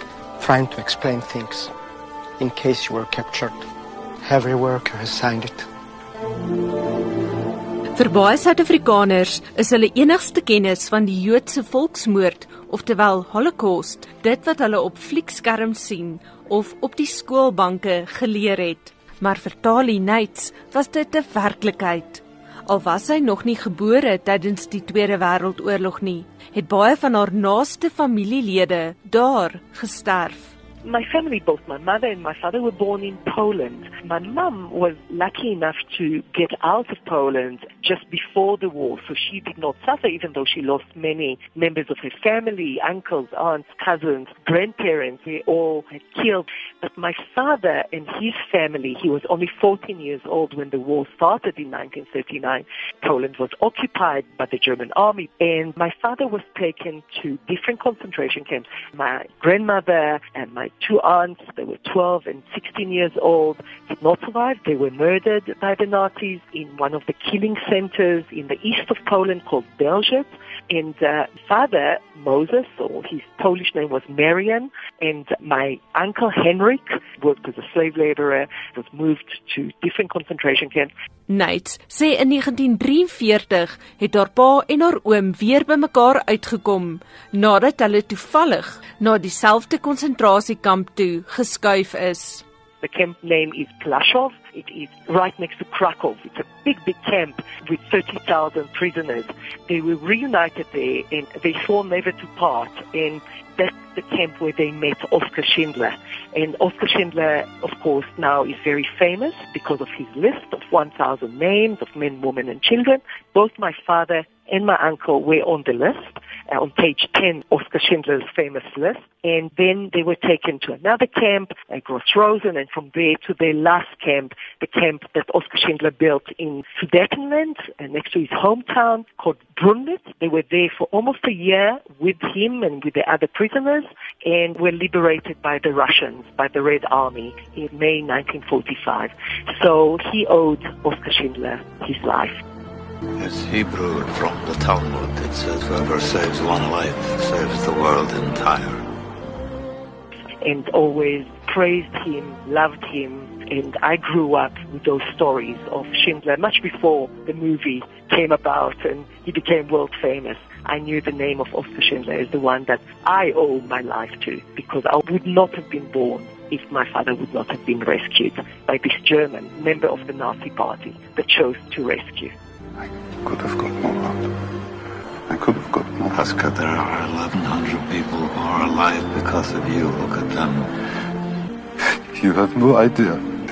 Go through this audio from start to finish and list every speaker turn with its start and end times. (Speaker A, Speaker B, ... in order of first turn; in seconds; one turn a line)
Speaker A: 0.4-1.7
Speaker A: 2.4-3.6
Speaker A: 4.2-5.6
Speaker B: 7.9-30.5
Speaker C: 30.8-80.9
Speaker B: 81.3-92.4
Speaker C: 92.8-142.3
Speaker D: 143.2-148.8
Speaker C: 150.4-172.3
Speaker E: 172.8-174.3
Speaker E: 175.3-176.1
Speaker D: 176.1-180.7
Speaker E: 182.1-183.2